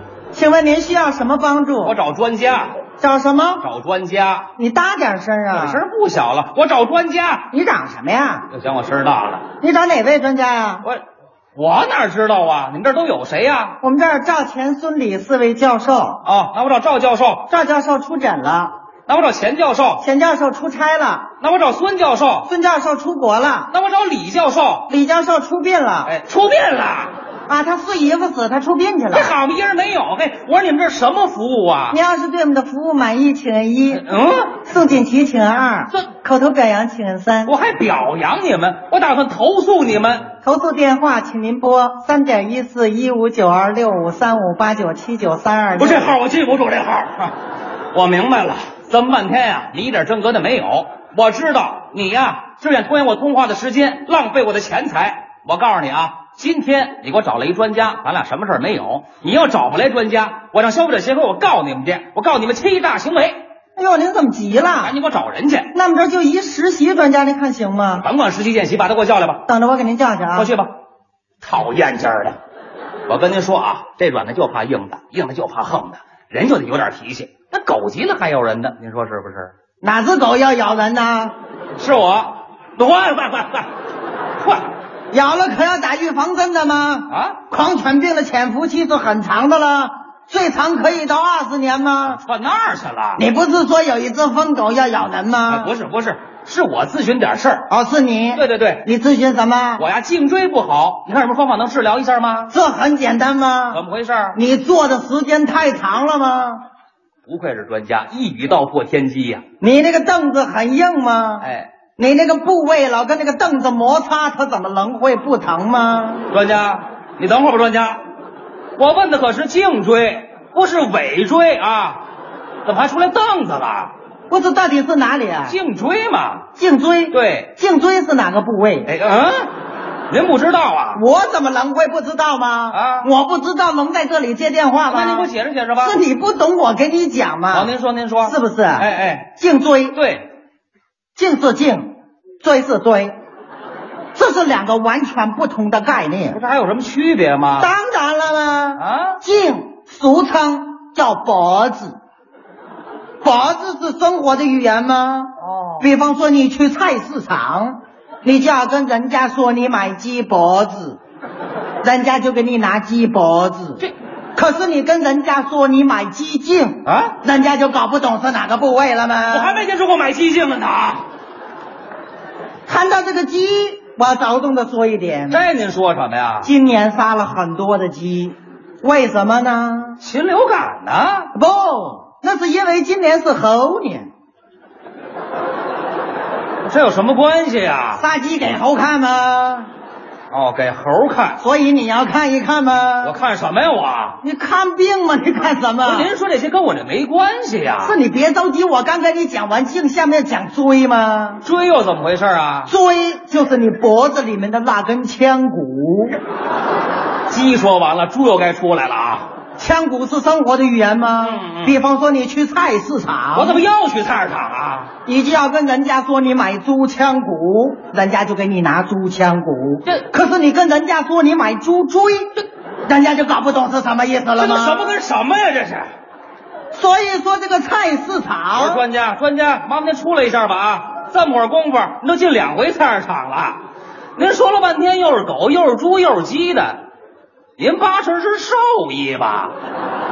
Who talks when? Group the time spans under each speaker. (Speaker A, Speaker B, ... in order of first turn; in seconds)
Speaker A: 0.3-2.0, 3.0-3.6, 4.6-5.8, 7.5-8.5, 9.6-10.8, 13.8-16.2, 17.5-18.7, 20.0-21.3, 22.4-23.7, 24.9-26.1, 27.5-29.4, 31.9-34.0, 34.6-37.5, 40.4-46.1, 63.8-64.9, 65.7-68.0, 69.5-70.5, 79.8-81.3, 85.1-92.2, 93.2-95.7, 97.7-99.8, 102.5-103.8, 104.3-106.6, 109.6-116.3, 124.3-125.6, 126.5-128.9, 130.9-137.7, 138.2-139.9, 141.1-143.2, 144.1-146.4, 147.6-152.0, 153.2-161.0, 161.8-163.8, 164.3-169.7, 172.7-175.4, 176.4-180.0, 181.3-184.1, 188.0-189.7, 191.4-193.2, 194.2-196.1, 197.8-201.4, 202.7-206.2, 209.6-213.6, 215.1-225.0, 226.7-228.8
Speaker B: 1.8-2.8, 3.6-4.5, 5.5-7.5, 8.5-9.5, 11.5-13.8, 16.2-17.5, 19.1-20.0, 21.4-22.5, 23.7-24.9, 26.0-27.1, 29.1-32.0, 33.9-34.5, 37.4-40.3, 45.8-47.3, 47.9-63.4, 64.8-65.7, 67.9-69.4, 70.3-70.7, 71.4-72.4, 73.1-79.5, 81.8-83.7, 84.4-84.7, 87.1-87.4, 92.1-93.2, 95.5-97.7, 98.3-98.8, 99.8-102.5, 103.7-104.4, 107.3-109.4, 111.4-111.7, 116.3-118.0, 118.8-122.0, 122.7-123.9, 125.5-126.5, 127.1-127.5, 128.8-129.5, 130.1-131.0, 132.7-133.1, 134.9-136.0, 137.5-139.3, 139.9-140.3, 146.3-147.7, 148.8-149.2, 155.4-155.9, 166.8-167.2, 169.3-171.1, 175.3-176.5, 180.0-181.3, 186.7-188.0, 190.3-191.4, 193.0-194.2, 195.8-198.0, 201.4-202.7, 207.3-209.3, 211.2-211.8, 213.3-214.9, 224.3-225.9, 228.5-233.6, 234.2-236.8, 237.6-239.5